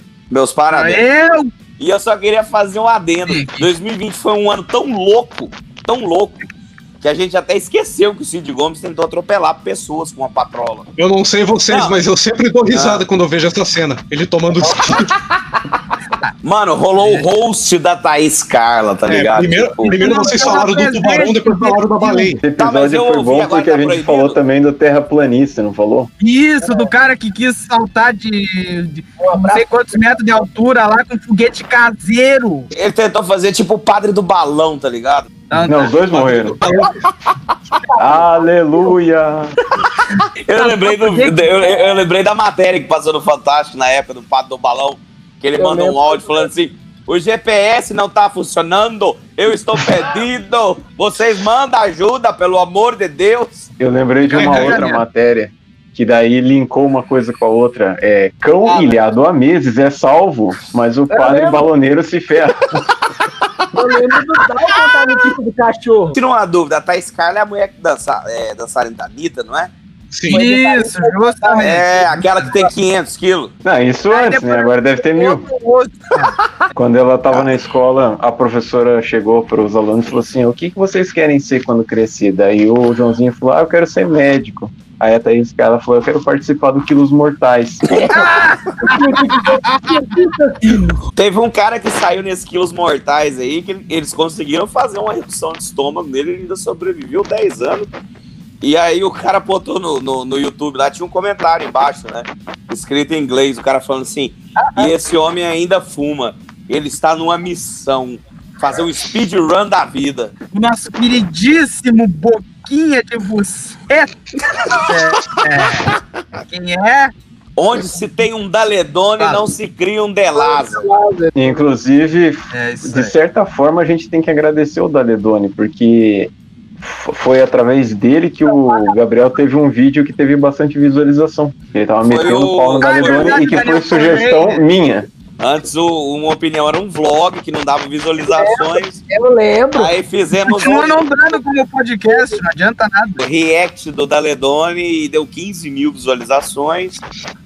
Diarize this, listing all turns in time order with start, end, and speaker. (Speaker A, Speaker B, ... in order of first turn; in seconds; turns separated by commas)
Speaker A: 0.3-1.1, Speaker B: 0.7-1.5, Speaker A: 1.8-6.4, Speaker B: 3.3-3.7, Speaker A: 7.0-10.9, Speaker C: 11.0-15.1, Speaker A: 11.7-12.0, Speaker A: 12.7-13.1, Speaker A: 16.4-20.0, Speaker B: 17.0-17.3, Speaker C: 19.1-22.4, Speaker B: 19.9-22.4, Speaker D: 19.9-21.2, Speaker E: 22.4-26.1, Speaker A: 22.6-24.4, Speaker B: 26.2-32.7, Speaker D: 26.6-26.9, Speaker D: 29.2-29.7, Speaker A: 32.7-35.3, Speaker B: 35.5-36.0, Speaker E: 35.6-36.8, Speaker C: 36.1-36.9, Speaker D: 37.9-38.9, Speaker E: 38.0-39.5, Speaker A: 40.5-53.7, Speaker B: 40.6-41.6, Speaker D: 45.6-46.5, Speaker E: 53.8-62.8, Speaker C: 54.3-54.8, Speaker B: 54.4-55.0, Speaker B: 58.7-59.0, Speaker D: 61.1-61.6, Speaker D: 63.7-66.2, Speaker A: 66.2-69.7, Speaker C: 70.1-70.4, Speaker D: 70.3-71.8, Speaker B: 70.3-72.5, Speaker A: 71.6-73.5, Speaker E: 73.6-75.4, Speaker B: 74.1-76.3, Speaker E: 76.8-87.9, Speaker D: 88.0-90.8, Speaker B: 88.1-90.0, Speaker A: 91.2-97.9, Speaker A: 98.6-110.3, Speaker B: 104.6-104.9, Speaker B: 110.5-114.1, Speaker B: 114.7-116.0, Speaker B: 116.5-117.1, Speaker A: 117.6-120.8, Speaker B: 119.2-119.5, Speaker D: 120.4-121.7, Speaker E: 121.3-135.1, Speaker B: 122.5-123.1, Speaker D: 128.5-128.9, Speaker A: 132.1-133.7, Speaker B: 132.8-134.6, Speaker A: 135.4-139.0, Speaker D: 138.2-139.9, Speaker A: 139.7-141.4, Speaker B: 140.5-143.2, Speaker D: 142.1-142.4, Speaker A: 143.2-147.0